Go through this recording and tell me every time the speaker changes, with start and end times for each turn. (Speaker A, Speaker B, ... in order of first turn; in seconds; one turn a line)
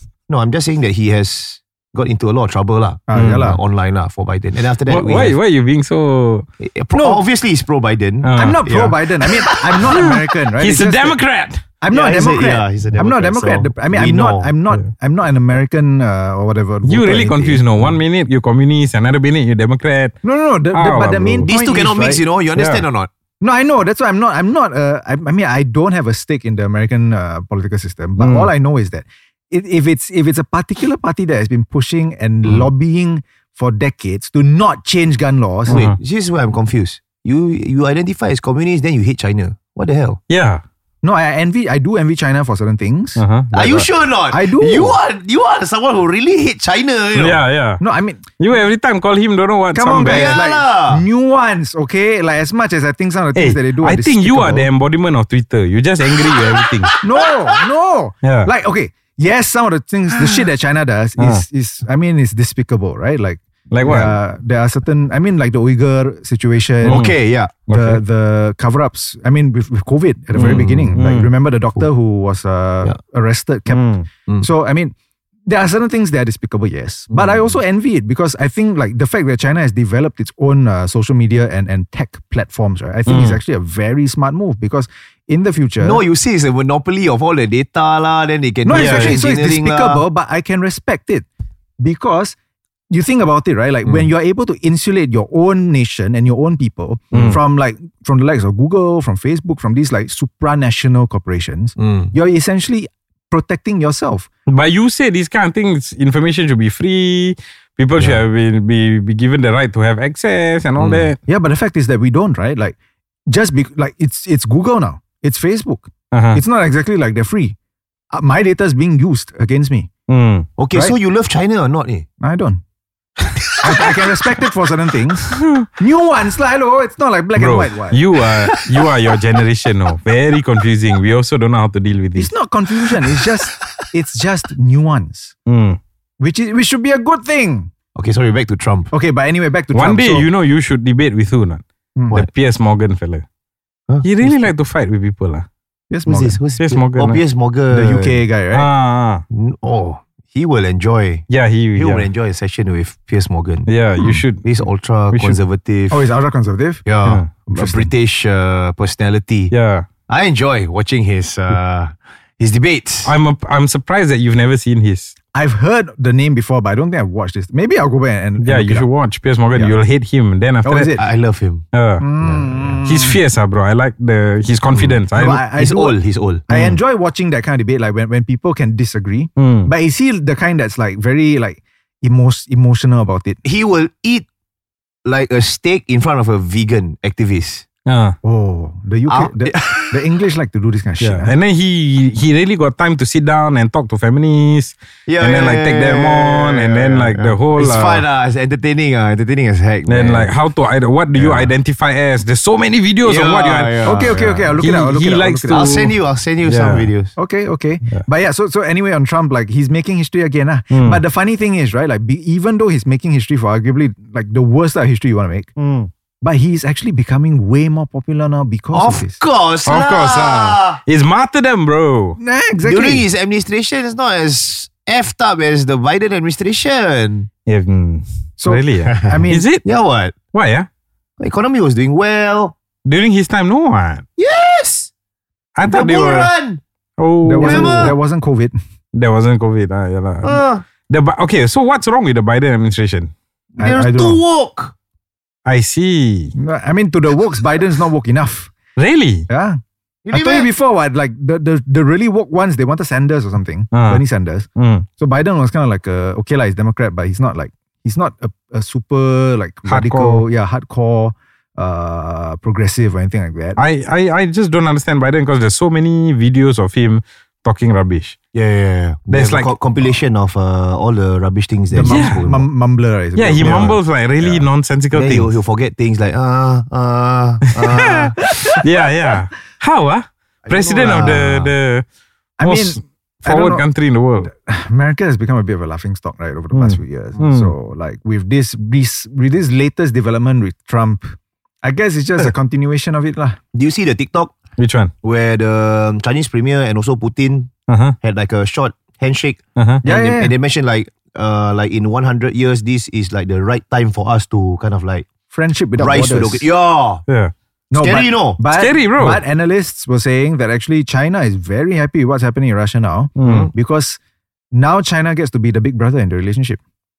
Speaker A: 0.3-5.4
Speaker B: 3.1-3.6
Speaker C: 3.1-3.5
Speaker C: 4.9-6.5
Speaker A: 6.6-10.0
Speaker B: 6.9-7.2
Speaker C: 8.2-8.6
Speaker B: 8.3-11.2
Speaker C: 9.9-11.6
Speaker B: 11.8-17.6
Speaker A: 11.9-14.5
Speaker C: 16.8-20.2
Speaker B: 20.2-22.2
Speaker C: 20.7-21.5
Speaker A: 21.4-23.1
Speaker C: 22.5-22.8
Speaker B: 23.4-35.8
Speaker C: 28.2-28.5
Speaker C: 35.7-36.0
Speaker A: 35.7-40.2
Speaker C: 40.3-40.6
Speaker B: 41.0-43.2
Speaker C: 43.2-43.9
Speaker A: 43.5-47.4
Speaker B: 44.3-45.0
Speaker C: 47.1-47.8
Speaker B: 47.8-48.2
Speaker C: 48.4-50.4
Speaker B: 49.7-54.7
Speaker A: 50.0-51.0
Speaker C: 53.4-56.9
Speaker B: 57.0-67.1
Speaker C: 58.2-58.5
Speaker C: 61.2-61.4
Speaker C: 63.7-64.2
Speaker C: 66.8-67.2
Speaker A: 66.9-67.6
Speaker C: 67.7-68.0
Speaker B: 67.7-74.9
Speaker C: 70.3-71.3
Speaker A: 70.4-71.0
Speaker C: 73.7-74.1
Speaker B: 75.5-86.0
Speaker A: 77.1-77.5
Speaker C: 83.1-83.4
Speaker A: 85.8-90.0
Speaker B: 88.7-91.3
Speaker C: 88.7-89.2
Speaker B: 91.8-92.4
Speaker B: 92.9-104.3
Speaker A: 97.1-97.4
Speaker C: 97.1-97.4
Speaker A: 101.8-102.1
Speaker C: 104.5-111.2
Speaker A: 110.8-111.1
Speaker B: 111.3-112.8
Speaker B: 113.3-117.6
Speaker C: 116.1-116.4
Speaker B: 118.1-119.9
Speaker C: 120.1-120.5
Speaker A: 120.6-122.1
Speaker B: 122.2-122.6
Speaker B: 123.6-128.0
Speaker C: 125.3-125.7
Speaker C: 127.4-132.3
Speaker A: 128.4-128.7
Speaker B: 132.2-135.3
Speaker C: 135.5-135.8
Speaker B: 136.2-137.7
Speaker A: 137.9-138.9
Speaker B: 138.9-140.3
Speaker C: 139.7-143.2
Speaker B: 142.0-142.2
Speaker A: 143.9-144.4
Speaker C: 144.0-145.5
Speaker B: 145.9-146.4
Speaker A: 146.1-148.2
Speaker C: 146.6-147.2
Speaker B: 147.7-148.7
Speaker C: 148.5-149.2
Speaker A: 149.3-156.1
Speaker C: 151.3-152.1
Speaker C: 153.7-154.4
Speaker C: 155.1-155.4
Speaker B: 155.9-156.8
Speaker A: 156.8-159.5
Speaker B: 157.5-157.9
Speaker C: 159.5-159.9
Speaker A: 160.1-163.1
Speaker C: 163.1-165.2
Speaker B: 165.3-168.9
Speaker C: 168.4-170.9
Speaker B: 170.6-171.0
Speaker A: 171.0-171.7
Speaker C: 171.7-172.0
Speaker B: 172.0-173.2
Speaker A: 172.2-172.8
Speaker C: 172.8-175.4
Speaker A: 174.7-175.0
Speaker B: 175.2-183.4
Speaker A: 175.6-176.8
Speaker C: 179.4-179.7
Speaker A: 183.4-184.3
Speaker A: 185.1-187.7
Speaker C: 187.9-188.2
Speaker B: 188.2-191.3
Speaker A: 189.1-190.0
Speaker C: 191.0-198.1
Speaker A: 195.1-200.3
Speaker C: 199.9-206.9
Speaker A: 201.2-201.5
Speaker A: 203.0-204.6
Speaker B: 203.8-205.8
Speaker A: 205.5-207.1
Speaker B: 207.2-215.5
Speaker C: 210.7-211.0
Speaker C: 215.6-215.9
Speaker B: 216.2-219.2
Speaker A: 218.7-220.8
Speaker C: 219.7-222.2
Speaker B: 222.2-223.1
Speaker A: 222.7-227.3
Speaker C: 227.5-229.7
Speaker B: 228.4-229.5
Speaker A: 228.9-230.2
Speaker C: 230.3-230.7
Speaker A: 231.2-232.6
Speaker C: 232.8-234.0
Speaker A: 234.2-234.9
Speaker C: 235.6-236.3
Speaker A: 235.7-236.6
Speaker C: 237.0-238.0
Speaker B: 237.2-238.6
Speaker A: 237.4-238.0
Speaker C: 238.9-243.1
Speaker A: 240.2-240.6
Speaker B: 243.6-244.2
Speaker A: 243.6-244.7
Speaker C: 245.4-246.3
Speaker B: 246.4-248.5
Speaker C: 248.8-249.3
Speaker B: 249.3-249.6
Speaker A: 250.1-250.5
Speaker B: 250.1-263.6
Speaker C: 253.7-254.0
Speaker C: 254.6-254.9
Speaker C: 259.6-260.2
Speaker C: 263.6-268.2
Speaker A: 268.3-272.5
Speaker C: 269.1-269.5
Speaker B: 271.7-274.4
Speaker C: 271.8-272.3
Speaker C: 273.2-275.3
Speaker A: 273.4-273.7
Speaker A: 274.9-278.2
Speaker C: 277.7-281.9
Speaker A: 280.5-281.3
Speaker B: 280.6-281.4
Speaker B: 282.4-283.7
Speaker C: 282.4-284.3
Speaker B: 284.2-293.4
Speaker C: 286.5-287.5
Speaker A: 293.5-294.3
Speaker C: 294.6-294.9
Speaker A: 295.0-305.1
Speaker C: 297.7-298.0
Speaker C: 299.6-299.8
Speaker B: 299.9-300.3
Speaker B: 305.3-306.5
Speaker A: 305.8-307.0
Speaker C: 307.1-307.3
Speaker B: 307.7-314.0
Speaker A: 307.7-308.4
Speaker C: 308.5-309.2
Speaker C: 313.2-313.5
Speaker A: 313.2-313.5
Speaker B: 314.5-316.6